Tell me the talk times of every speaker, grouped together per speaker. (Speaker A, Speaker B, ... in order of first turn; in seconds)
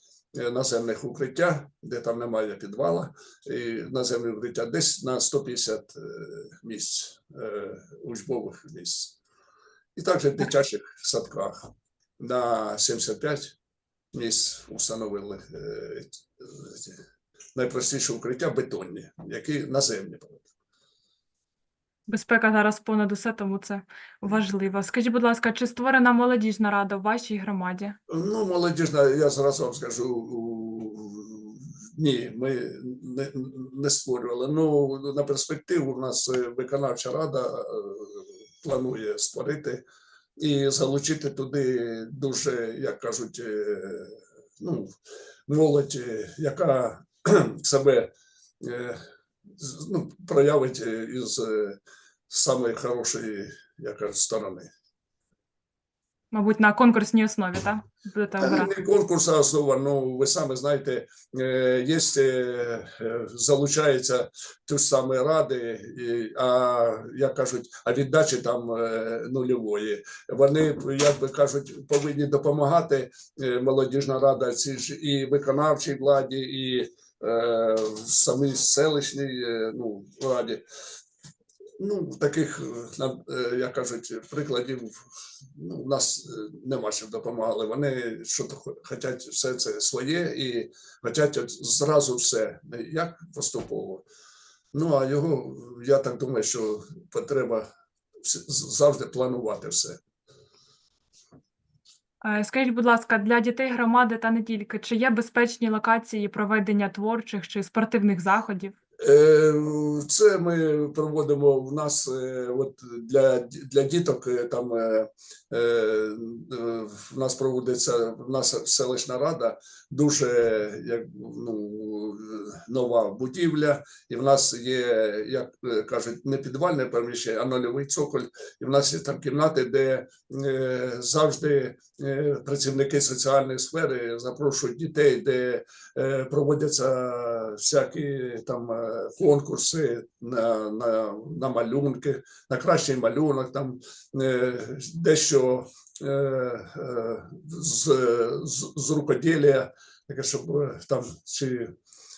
Speaker A: 0.3-9.2, 9.9-13.6, 14.1-17.0, 17.6-20.5, 28.1-39.8, 40.4-45.0, 45.5-48.1, 48.6-49.0, 49.5-54.7, 58.4-80.6, 81.8-94.0, 94.7-97.7, 98.2-100.0, 109.0-151.7
Speaker B: 22.1-27.9, 56.3-58.7, 102.2-108.7